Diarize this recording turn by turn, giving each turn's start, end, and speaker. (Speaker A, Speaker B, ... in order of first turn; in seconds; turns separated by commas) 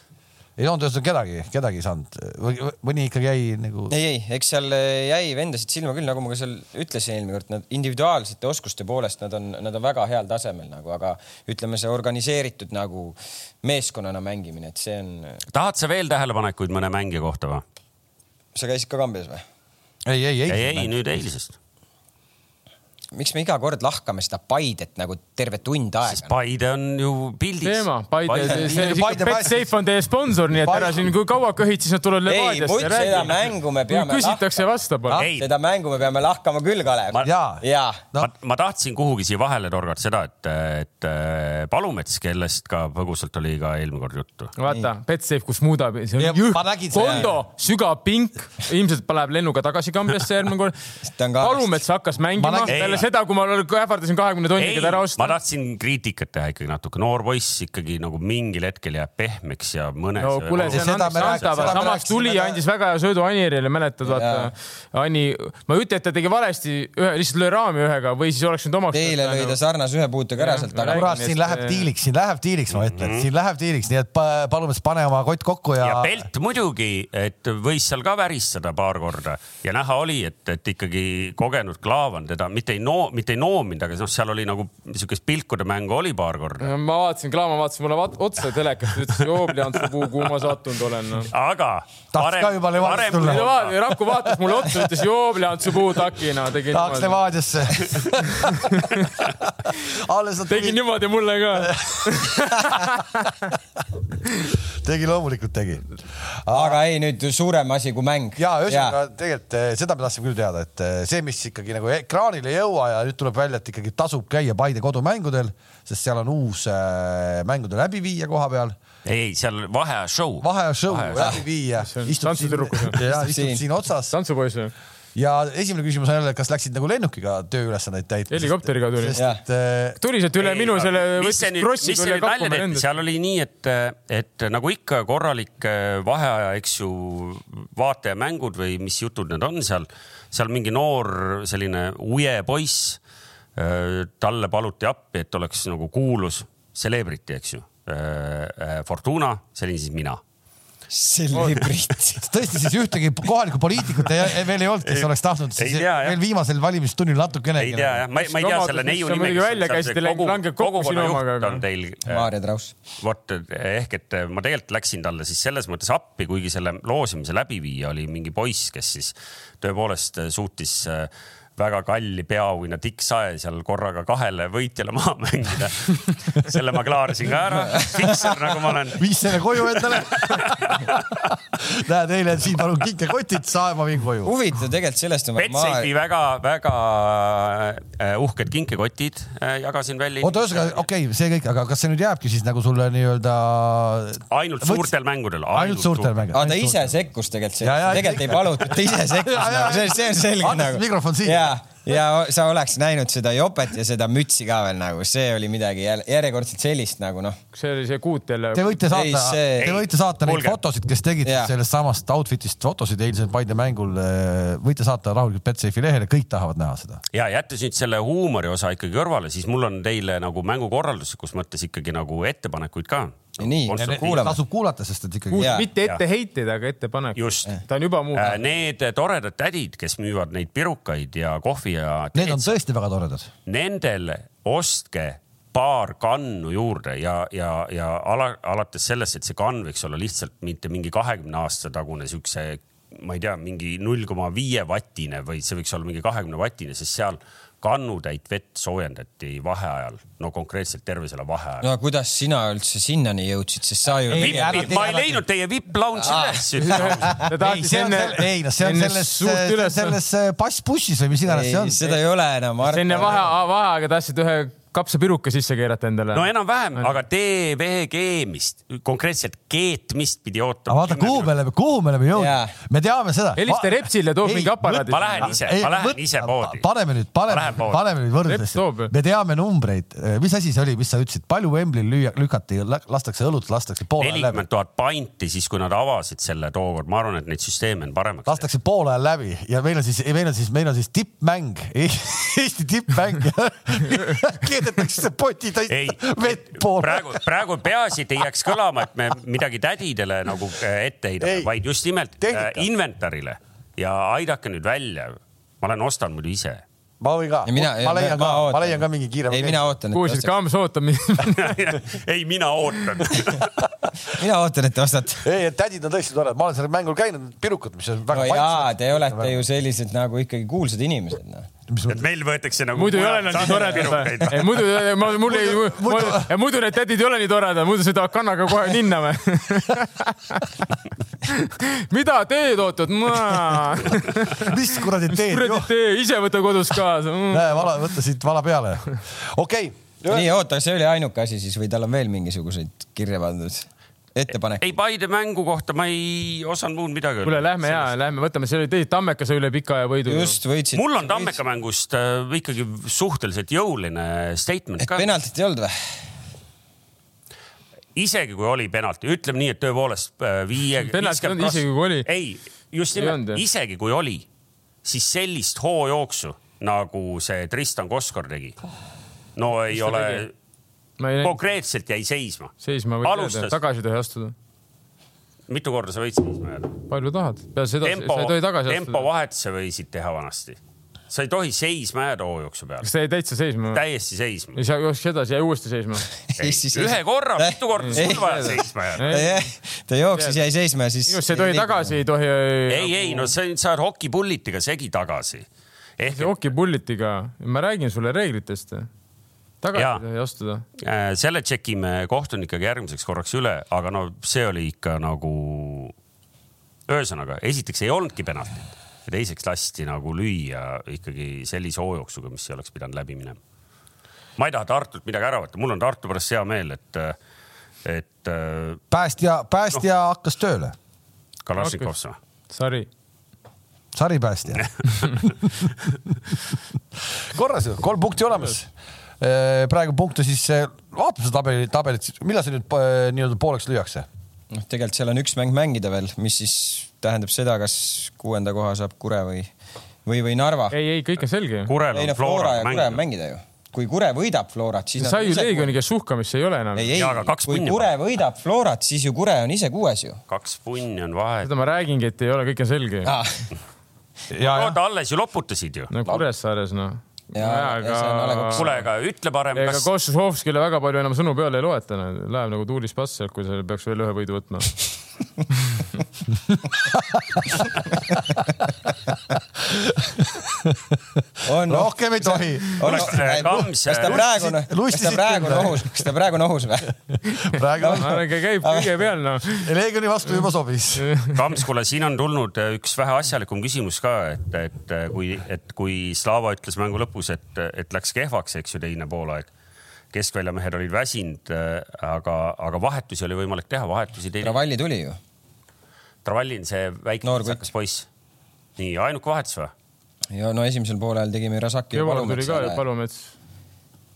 Speaker A: 0.6-3.9, Speaker B: 3.9-15.4, Speaker C: 15.5-17.6, Speaker B: 18.5-19.4, Speaker A: 20.1-20.9, Speaker C: 20.5-21.6, Speaker B: 23.1-26.3, Speaker C: 26.1-28.7, Speaker D: 27.6-35.2, Speaker A: 28.5-29.7, Speaker A: 30.5-31.1, Speaker B: 32.2-34.5, Speaker C: 35.1-35.5, Speaker B: 35.4-38.0, Speaker A: 37.2-37.6, Speaker C: 38.2-44.5, Speaker D: 44.6-50.8, Speaker A: 46.2-47.3, Speaker B: 46.9-47.3, Speaker B: 51.1-51.8, Speaker D: 51.4-55.3, Speaker A: 52.4-53.0, Speaker C: 52.7-53.0, Speaker C: 54.5-61.8, Speaker D: 60.2-69.6, Speaker A: 60.6-62.6, Speaker B: 64.0-64.5, Speaker B: 68.9-71.1, Speaker D: 70.4-71.9, Speaker A: 70.9-76.3, Speaker C: 72.7-73.3, Speaker C: 75.8-86.7, Speaker D: 86.6-91.3, Speaker C: 91.3-93.8, Speaker A: 92.1-93.5, Speaker D: 93.2-97.2, Speaker A: 96.7-100.8, Speaker D: 98.3-99.1, Speaker D: 100.5-103.4, Speaker A: 101.5-102.9, Speaker A: 104.8-106.8, Speaker B: 106.5-109.0, Speaker A: 108.4-118.8, Speaker C: 119.0-121.4, Speaker A: 120.4-124.1, Speaker B: 121.1-121.4, Speaker D: 121.8-123.0, Speaker B: 123.0-123.6, Speaker D: 124.1-124.7, Speaker A: 125.1-130.0, Speaker D: 128.3-129.2, Speaker B: 129.2-129.4, Speaker D: 130.0-132.8, Speaker C: 130.4-143.0, Speaker C: 143.6-150.2, Speaker B: 150.9-152.3, Speaker D: 151.3-151.6, Speaker A: 152.2-158.0, Speaker C: 154.8-156.2, Speaker C: 157.6-162.3, Speaker D: 158.2-161.6, Speaker B: 162.1-162.7, Speaker C: 163.0-181.2, Speaker B: 177.7-178.2, Speaker A: 178.9-184.3, Speaker B: 184.2-185.9, Speaker C: 185.4-190.8, Speaker A: 190.2-194.9, Speaker C: 194.3-196.2, Speaker A: 195.5-196.8, Speaker B: 196.3-207.4, Speaker A: 197.6-201.5, Speaker D: 207.5-208.8, Speaker A: 208.5-217.0, Speaker B: 208.9-209.8, Speaker C: 209.6-210.6, Speaker B: 211.2-211.5, Speaker C: 217.1-224.3, Speaker B: 223.4-224.4, Speaker A: 223.7-225.6, Speaker D: 225.3-228.4, Speaker B: 225.4-225.7, Speaker C: 227.2-227.5, Speaker C: 228.1-232.6, Speaker A: 232.1-233.3, Speaker C: 233.5-251.7, Speaker B: 251.6-254.8, Speaker A: 254.1-255.2, Speaker C: 254.1-257.2, Speaker B: 256.0-257.3, Speaker D: 256.6-260.0, Speaker A: 257.2-261.9, Speaker B: 261.3-263.3, Speaker D: 262.6-266.9, Speaker C: 266.1-271.3, Speaker A: 270.7-284.4, Speaker B: 272.1-272.5, Speaker D: 273.4-275.4, Speaker C: 274.9-276.6, Speaker C: 277.3-277.8, Speaker D: 278.2-278.9, Speaker C: 284.0-288.4, Speaker A: 288.3-297.2, Speaker C: 295.7-306.6, Speaker A: 301.2-301.5, Speaker A: 302.2-302.7, Speaker A: 307.0-309.7, Speaker B: 307.4-310.3, Speaker D: 309.9-311.8, Speaker C: 311.2-313.5, Speaker B: 314.1-315.2, Speaker A: 315.2-319.4, Speaker B: 318.1-321.5, Speaker A: 321.7-322.0, Speaker C: 321.9-324.6, Speaker D: 322.8-330.7, Speaker B: 323.3-324.3, Speaker A: 325.2-326.3, Speaker D: 331.2-334.6, Speaker A: 334.4-335.7, Speaker D: 335.1-337.7, Speaker A: 337.3-340.3, Speaker B: 340.1-344.6, Speaker C: 344.6-347.9, Speaker D: 347.2-350.4, Speaker B: 350.1-351.4, Speaker C: 350.7-355.1, Speaker B: 354.8-356.0, Speaker C: 357.9-364.2, Speaker D: 360.8-362.1, Speaker D: 362.9-363.4, Speaker C: 364.8-368.6, Speaker C: 369.4-370.3, Speaker D: 369.7-370.2, Speaker D: 371.0-371.3, Speaker C: 371.2-373.6, Speaker D: 372.6-374.3, Speaker C: 375.5-376.8, Speaker D: 376.9-379.1, Speaker C: 377.8-380.6, Speaker C: 381.1-382.9, Speaker D: 382.8-383.8, Speaker C: 383.7-384.6, Speaker D: 384.5-386.1, Speaker B: 386.3-391.9, Speaker C: 386.4-389.2, Speaker D: 387.8-389.4, Speaker D: 390.1-390.4, Speaker D: 391.1-393.3, Speaker C: 392.7-395.5, Speaker C: 396.0-396.3, Speaker D: 396.1-398.9, Speaker D: 399.6-400.6, Speaker C: 399.7-400.0, Speaker C: 400.8-405.9, Speaker C: 406.9-413.4, Speaker C: 414.4-417.1, Speaker C: 417.8-418.8, Speaker A: 418.9-420.7, Speaker C: 421.4-422.1, Speaker D: 421.6-421.9, Speaker D: 422.5-422.9, Speaker A: 423.9-426.1, Speaker A: 427.2-434.1, Speaker B: 434.5-439.5, Speaker B: 440.0-440.8, Speaker D: 440.7-441.7, Speaker C: 441.6-443.0, Speaker B: 441.9-445.7, Speaker D: 445.0-446.9, Speaker B: 446.7-450.2, Speaker C: 446.9-447.9, Speaker C: 450.3-451.5, Speaker D: 451.4-453.1, Speaker B: 453.0-453.5, Speaker A: 454.3-454.8, Speaker C: 454.4-455.9, Speaker D: 455.9-458.7, Speaker B: 457.3-458.8, Speaker C: 458.5-459.9, Speaker D: 459.5-464.8, Speaker A: 466.9-467.6, Speaker A: 469.7-476.1, Speaker B: 471.4-476.9, Speaker C: 472.8-474.3, Speaker A: 477.3-478.2, Speaker B: 477.8-479.0, Speaker D: 477.8-479.7, Speaker A: 479.4-481.1, Speaker D: 481.0-481.4, Speaker C: 481.3-489.5, Speaker C: 490.1-494.6, Speaker B: 494.4-495.2, Speaker C: 496.2-498.1, Speaker B: 497.2-497.6, Speaker C: 498.8-499.7, Speaker B: 500.3-502.8, Speaker D: 501.9-503.3